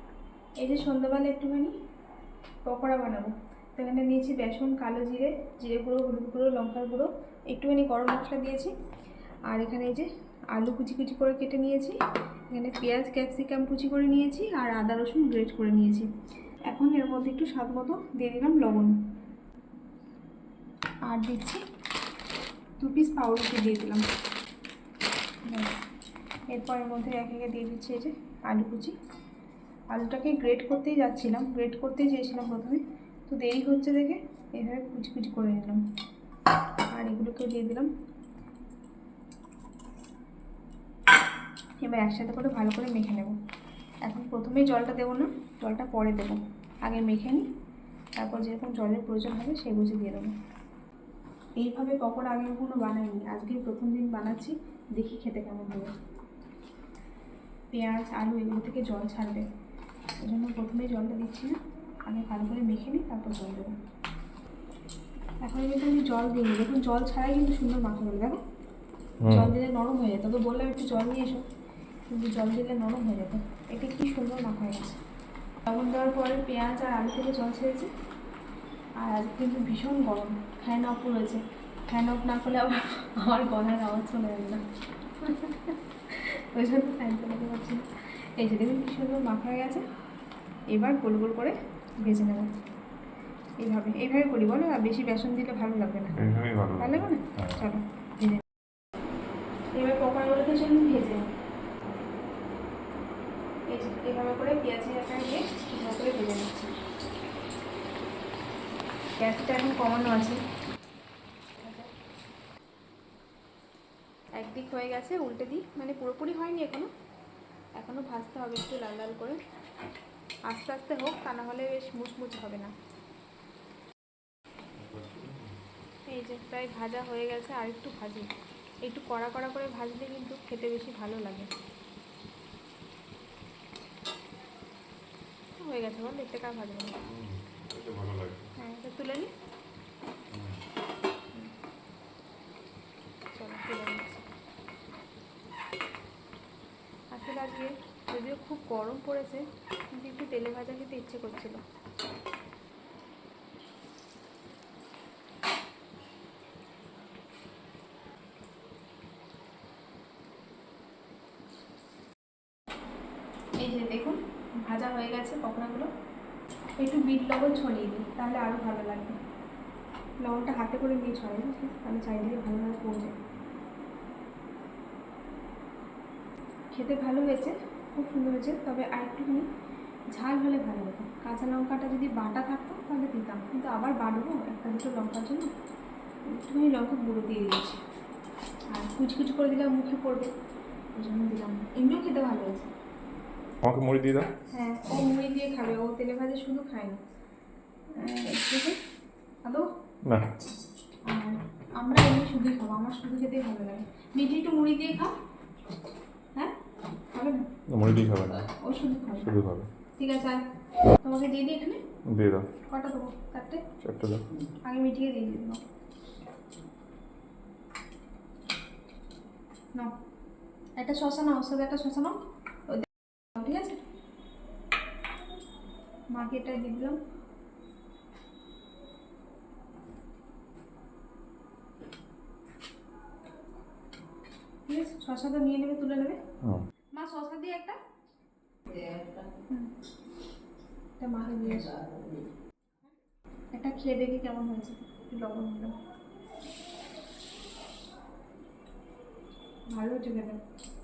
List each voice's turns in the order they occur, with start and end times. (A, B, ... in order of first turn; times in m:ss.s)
0:00.6-0:01.7 A
0:02.7-0:08.7 A
0:09.5-0:12.0 A
0:12.5-0:16.1 A
0:16.7-0:18.9 A
0:21.1-0:21.6 A
0:22.8-0:24.0 A
0:25.5-0:25.7 A
0:26.5-0:28.9 A
0:29.9-0:35.8 A
0:36.9-0:37.9 A
0:41.8-0:43.4 A
0:44.0-0:47.5 A
0:48.2-0:50.3 A
0:51.6-0:55.9 A
0:57.7-0:59.5 A
1:00.2-1:03.7 A
1:05.4-1:08.4 A
1:09.2-1:09.5 B
1:09.3-1:11.4 A
1:12.1-1:15.0 A
1:15.6-1:17.9 A
1:19.0-1:24.6 A
1:25.2-1:29.9 A
1:30.7-1:32.5 A
1:33.6-1:36.2 A
1:36.1-1:37.6 B
1:36.8-1:38.4 A
1:39.7-1:41.3 A
1:43.7-1:46.8 A
1:49.2-1:50.4 A
1:51.6-1:51.9 A
1:54.4-1:56.9 A
1:57.8-1:59.4 A
2:00.5-2:02.7 A
2:04.8-2:05.5 B
2:06.1-2:08.3 A
2:08.8-2:11.5 A
2:15.6-2:17.0 A
2:17.0-2:18.5 B
2:18.6-2:19.3 A
2:20.3-2:20.6 B
2:23.3-2:24.3 A
2:27.1-2:31.6 A
2:43.6-2:45.9 A
2:46.8-2:49.2 A
2:50.2-2:53.1 A
2:56.7-2:59.5 A
3:00.1-3:05.5 A
3:06.3-3:07.8 A
3:08.7-3:10.3 A
3:11.0-3:12.7 A
3:13.6-3:14.3 B
3:14.5-3:17.0 A
3:17.9-3:18.8 A
3:20.0-3:20.3 B
3:21.1-3:25.2 A
3:27.1-3:27.5 A
3:27.7-3:28.5 B
3:28.5-3:29.3 A
3:29.2-3:29.7 B
3:30.0-3:30.4 A
3:31.0-3:31.8 A
3:32.1-3:32.5 B
3:32.7-3:33.6 A
3:33.8-3:34.3 B
3:34.6-3:35.6 A
3:40.8-3:42.2 A
3:42.7-3:43.8 A
3:46.1-3:47.0 A
3:54.7-3:56.2 A
3:56.9-3:57.8 A
3:59.5-3:59.7 A
4:01.0-4:01.8 A
4:03.5-4:05.7 A
4:09.7-4:10.4 A